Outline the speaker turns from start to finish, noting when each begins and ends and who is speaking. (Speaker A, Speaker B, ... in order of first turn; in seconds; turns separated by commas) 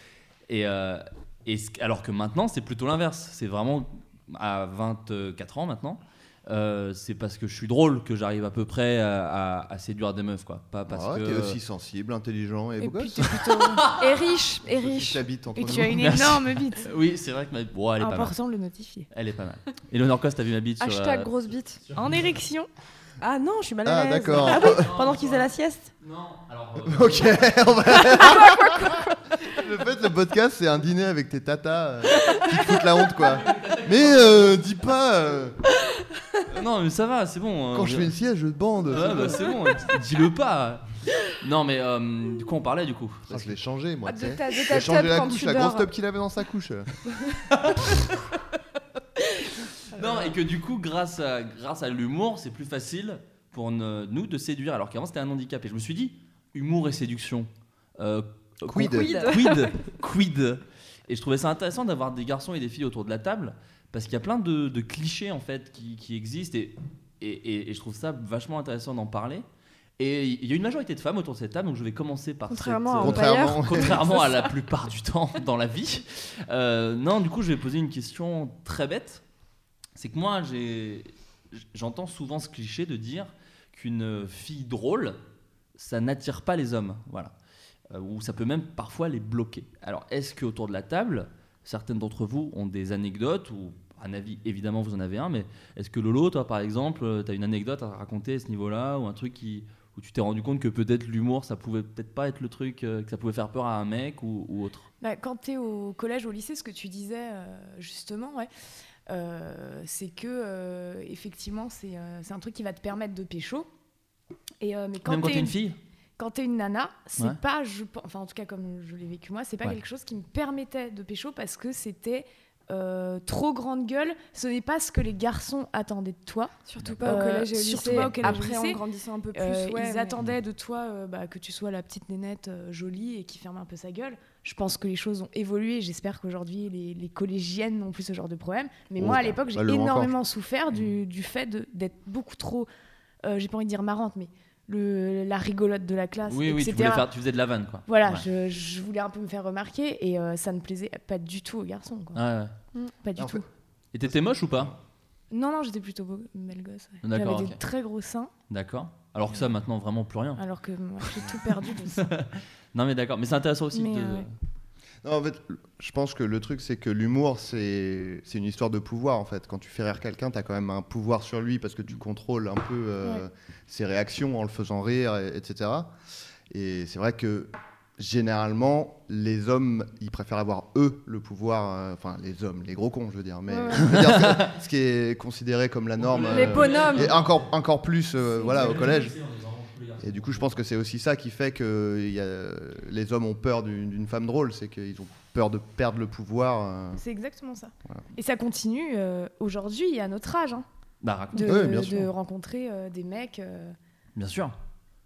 Speaker A: 0.5-11.6, Speaker B: 10.9-13.4, Speaker C: 12.8-13.9, Speaker A: 13.4-14.2, Speaker D: 13.9-15.2, Speaker B: 14.7-16.2, Speaker C: 15.6-16.9, Speaker A: 15.8-18.4, Speaker C: 18.0-19.1, Speaker A: 19.1-22.3, Speaker D: 20.8-21.8, Speaker C: 22.0-22.7, Speaker E: 23.2-25.9, Speaker B: 23.9-24.9, Speaker A: 24.4-25.5, Speaker A: 26.0-27.5, Speaker B: 26.9-35.6, Speaker D: 28.1-29.1, Speaker A: 33.1-34.6, Speaker A: 36.5-38.1, Speaker B: 37.7-39.5, Speaker A: 38.9-43.6, Speaker B: 43.3-46.9, Speaker D: 44.1-45.9, Speaker A: 47.5-48.2, Speaker A: 49.9-69.5, Speaker E: 49.9-50.3, Speaker B: 58.6-59.1, Speaker D: 58.9-59.8, Speaker E: 59.1-59.4, Speaker A: 70.0-79.2, Speaker D: 72.5-74.5, Speaker B: 73.0-74.2, Speaker A: 80.0-85.2, Speaker A: 85.8-87.3, Speaker A: 87.9-104.9, Speaker C: 105.0-108.5, Speaker C: 109.1-113.7, Speaker C: 114.6-115.6, Speaker A: 115.0-115.8, Speaker C: 116.2-126.5, Speaker D: 126.7-130.2, Speaker A: 126.8-127.2, Speaker C: 127.0-128.8, Speaker A: 127.8-128.4, Speaker C: 129.3-142.7, Speaker B: 139.0-140.1, Speaker C: 143.2-147.1, Speaker A: 146.3-148.2, Speaker C: 147.9-152.2, Speaker A: 152.2-152.5, Speaker C: 153.0-153.5, Speaker B: 153.2-153.4, Speaker A: 153.9-154.7, Speaker B: 154.1-154.8, Speaker C: 155.3-158.3, Speaker A: 157.0-157.6, Speaker A: 158.5-160.4, Speaker C: 160.4-162.1, Speaker A: 161.0-161.3, Speaker A: 161.9-164.3, Speaker C: 163.7-164.3, Speaker B: 165.0-175.9, Speaker B: 176.5-189.2, Speaker C: 183.5-183.9, Speaker A: 183.8-184.4, Speaker A: 186.0-187.4, Speaker D: 186.3-187.2, Speaker A: 188.4-190.6, Speaker B: 190.0-197.0, Speaker C: 197.0-200.7, Speaker A: 201.0-201.7, Speaker C: 201.3-203.8, Speaker B: 201.4-202.1, Speaker A: 204.2-204.5